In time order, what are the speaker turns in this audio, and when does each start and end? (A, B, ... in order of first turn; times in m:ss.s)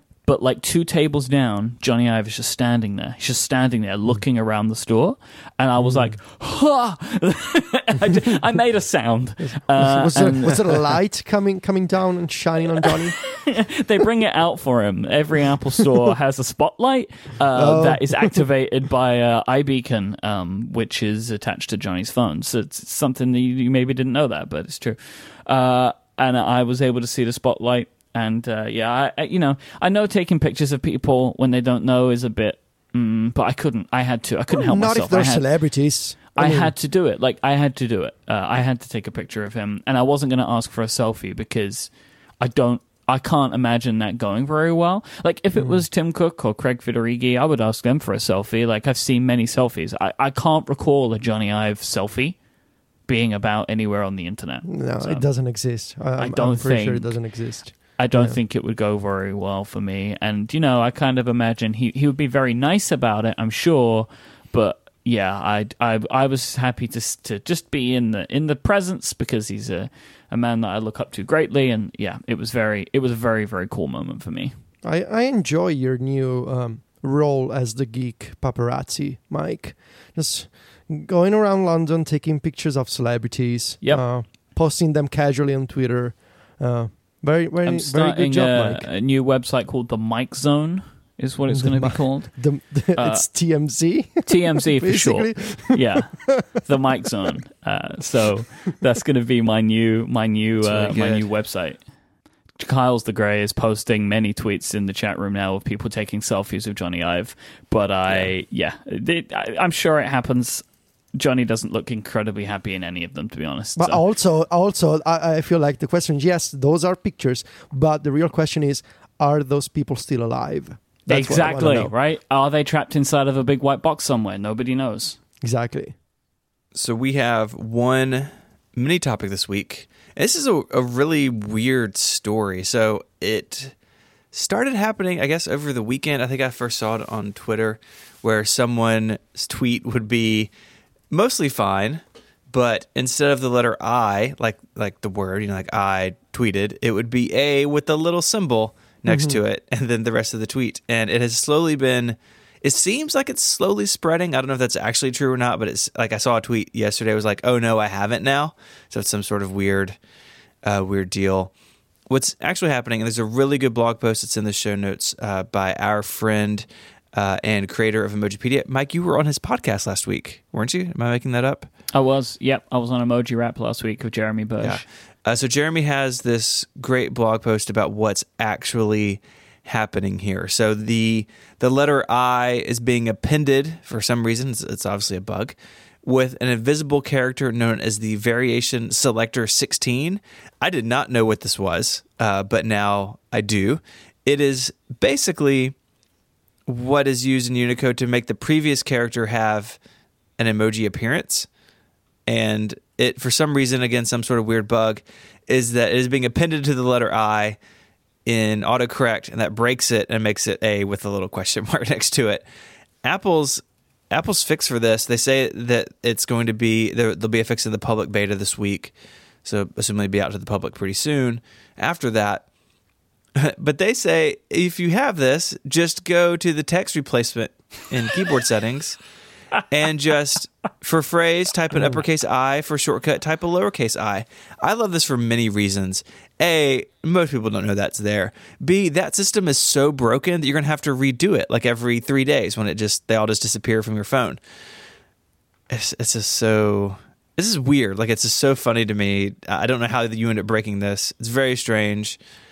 0:00.2-0:10.7 A
0:05.8-0:06.2 B
0:09.5-0:13.3 B
0:13.2-0:35.4 A
0:17.6-0:18.4 B
0:34.5-0:36.7 B
0:36.3-0:52.4 A
0:45.6-0:45.8 B
0:53.1-0:55.2 A
0:54.6-0:58.4 B
0:56.2-0:57.2 A
0:57.7-1:14.5 A
1:14.8-1:28.9 B
1:27.6-1:32.4 A
1:31.5-1:36.6 B
1:32.9-1:33.2 A
1:34.2-1:41.8 A
1:40.6-1:41.2 C
1:42.6-1:54.0 A
1:53.8-2:01.9 B
2:01.1-2:05.2 A
2:05.4-2:05.9 B
2:06.7-2:13.7 C
2:14.3-2:20.5 C
2:21.1-2:40.0 C
2:29.0-2:29.4 B
2:40.6-2:41.5 C
2:42.1-2:51.7 C
2:51.9-2:54.8 A
2:54.6-3:15.7 C
3:16.7-3:19.8 C
3:20.4-3:21.5 C
3:22.2-3:27.6 C
3:28.2-3:32.4 C
3:33.0-3:42.5 C
3:43.4-3:49.0 C
3:49.6-4:04.4 C
3:51.7-3:52.0 B
4:05.7-4:12.2 C